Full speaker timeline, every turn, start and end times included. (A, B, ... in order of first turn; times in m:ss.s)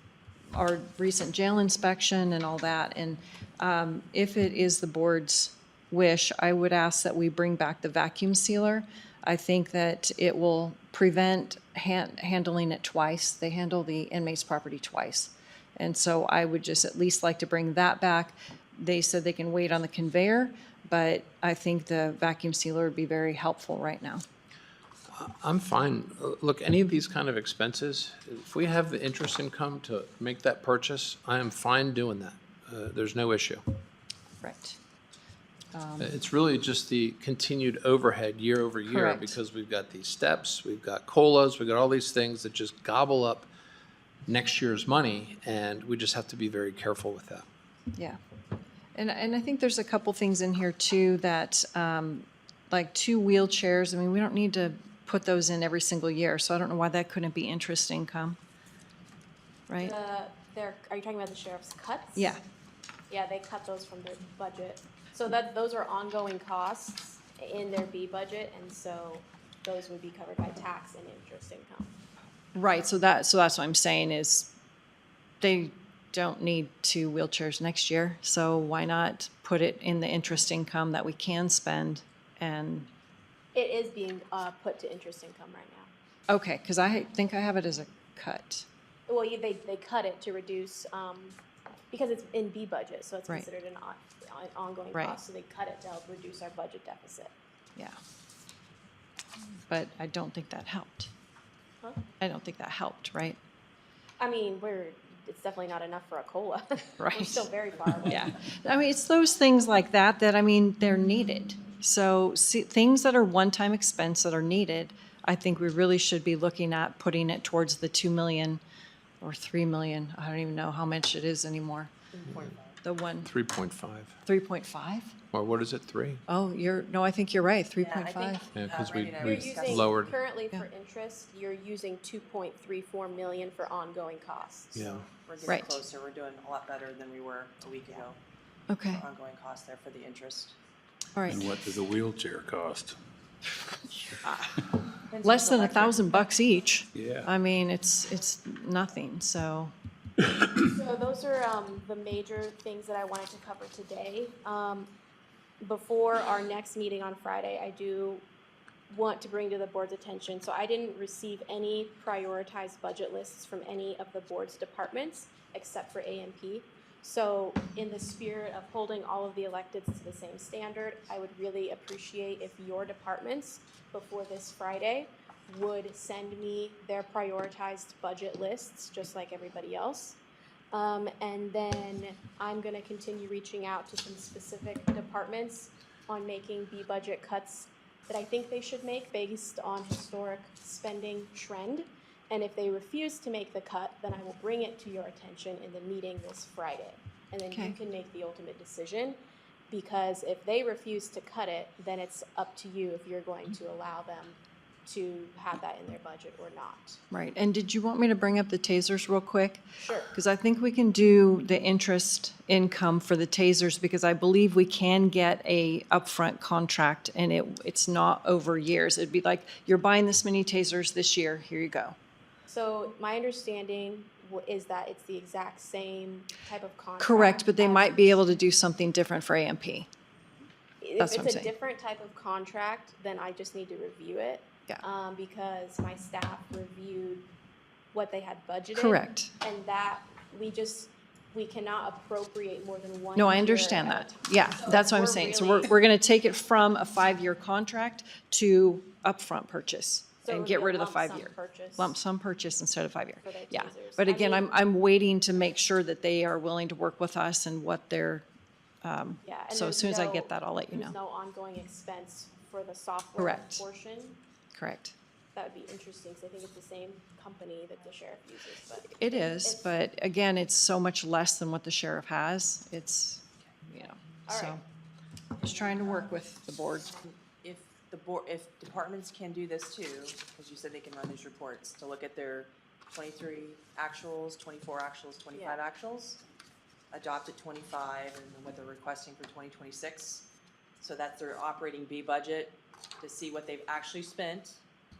0:00.5-0:24.2 A
0:25.1-0:33.6 B
0:34.4-0:34.8 A
0:35.7-0:36.1 A
0:36.0-0:43.5 B
0:38.9-0:39.4 A
0:44.3-0:47.4 B
0:48.9-0:58.4 A
0:59.8-1:02.4 C
1:02.2-1:02.4 A
1:03.1-1:11.9 C
1:12.5-1:14.5 A
1:15.4-1:22.9 A
1:23.5-1:25.9 C
1:26.3-1:28.6 A
1:29.1-1:31.4 C
1:31.9-1:37.3 C
1:34.9-1:35.2 A
1:39.7-1:41.1 A
1:42.2-1:43.4 A
1:44.2-1:48.3 C
1:47.0-1:47.4 A
1:48.0-1:58.6 A
1:59.2-2:01.9 A
2:02.1-2:02.8 D
2:02.8-2:03.3 A
2:03.2-2:04.2 B
2:04.2-2:05.1 A
2:05.3-2:06.2 B
2:06.3-2:08.4 A
2:07.8-2:10.0 D
2:08.5-2:10.2 B
2:09.2-2:14.8 C
2:14.7-2:18.2 D
2:14.7-2:15.0 B
2:18.7-2:19.0 A
2:18.9-2:20.6 D
2:21.2-2:21.4 A
2:21.3-2:23.0 E
2:24.2-2:24.5 A
2:25.1-2:26.2 D
2:25.2-2:29.7 A
2:26.9-2:27.3 E
2:30.5-2:34.9 C
2:35.6-2:38.2 C
2:38.9-3:00.2 C
3:00.7-3:19.2 C
3:17.5-3:17.8 A
3:19.7-3:27.0 C
3:27.1-3:41.9 A
3:29.8-3:30.1 C
3:42.5-3:48.2 C
3:47.0-3:49.9 A
3:50.8-3:57.3 C
3:51.0-3:51.5 A
3:57.9-4:05.7 C
3:58.7-3:59.3 A
4:03.2-4:18.3 A
4:10.2-4:11.9 C
4:13.2-4:14.5 C
4:18.8-4:20.9 A
4:19.2-4:24.2 C
4:23.2-4:23.6 A
4:24.5-4:24.9 A
4:25.3-4:29.6 C
4:28.9-4:34.6 A
4:34.3-4:34.6 C
4:35.4-4:36.9 A
4:37.0-4:46.2 D
4:45.3-4:45.6 C
4:46.9-4:50.3 D
4:50.8-4:54.6 D